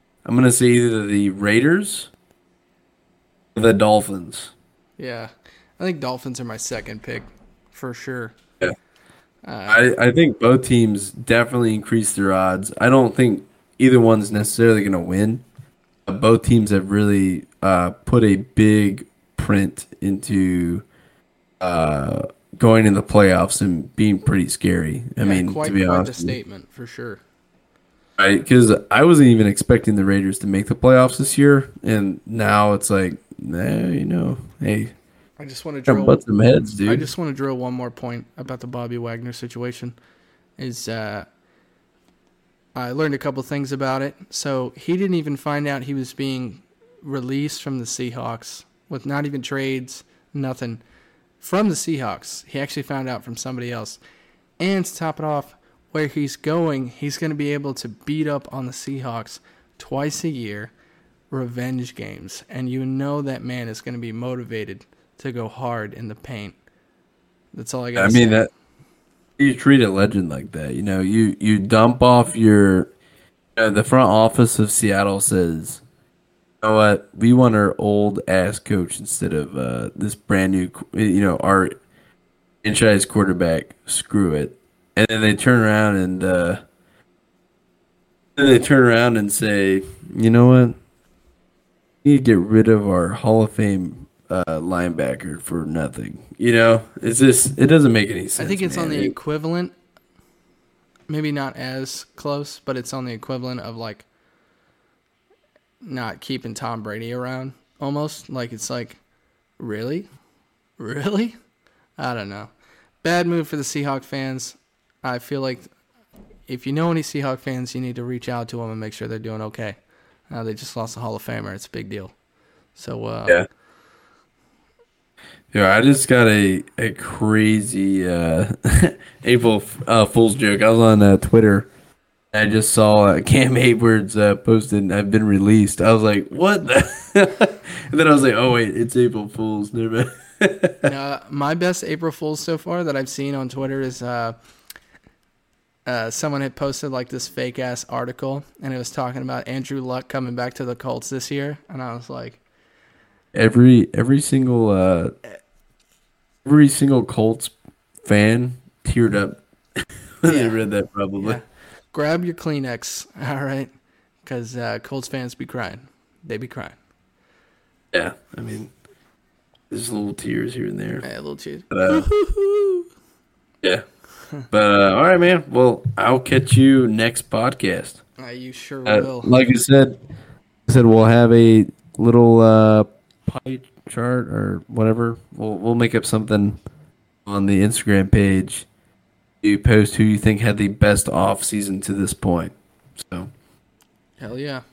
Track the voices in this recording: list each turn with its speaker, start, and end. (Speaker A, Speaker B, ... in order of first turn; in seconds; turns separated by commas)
Speaker A: 0.2-2.1, Speaker A: 3.5-4.5, Speaker B: 5.0-8.3, Speaker B: 9.4-9.8, Speaker A: 9.7-15.4, Speaker A: 16.1-20.8, Speaker A: 21.6-26.3, Speaker B: 25.2-27.2, Speaker A: 28.2-34.9, Speaker B: 35.4-36.2, Speaker A: 35.9-37.1, Speaker B: 36.8-39.9, Speaker B: 40.6-41.3, Speaker B: 42.8-50.8, Speaker B: 51.4-54.0, Speaker B: 54.6-60.7, Speaker B: 61.3-66.5, Speaker B: 67.5-68.4, Speaker A: 68.0-68.5, Speaker A: 69.4-72.9, Speaker A: 73.5-75.8, Speaker A: 76.6-81.7, Speaker A: 82.6-86.6, Speaker A: 88.3-90.8, Speaker A: 92.0-99.1, Speaker B: 98.4-99.7, Speaker B: 101.1-104.0, Speaker B: 105.8-109.0, Speaker B: 109.6-110.1, Speaker B: 110.8-111.3, Speaker B: 112.0-112.5, Speaker B: 113.0-115.7, Speaker B: 116.5-119.8, Speaker B: 120.3-122.1, Speaker B: 122.7-123.4, Speaker A: 125.5-131.7, Speaker A: 132.3-140.8, Speaker B: 140.8-144.3, Speaker B: 145.8-152.4, Speaker A: 153.3-155.1, Speaker A: 156.4-161.4, Speaker B: 160.2-160.6, Speaker B: 161.2-163.7, Speaker B: 164.2-166.8, Speaker A: 167.9-168.7, Speaker A: 169.7-171.0, Speaker B: 171.0-172.9, Speaker A: 171.7-172.1, Speaker A: 174.5-178.0, Speaker B: 178.2-179.3, Speaker A: 178.8-180.0, Speaker A: 180.7-186.6, Speaker A: 187.2-188.7, Speaker A: 189.4-193.3, Speaker B: 194.2-194.6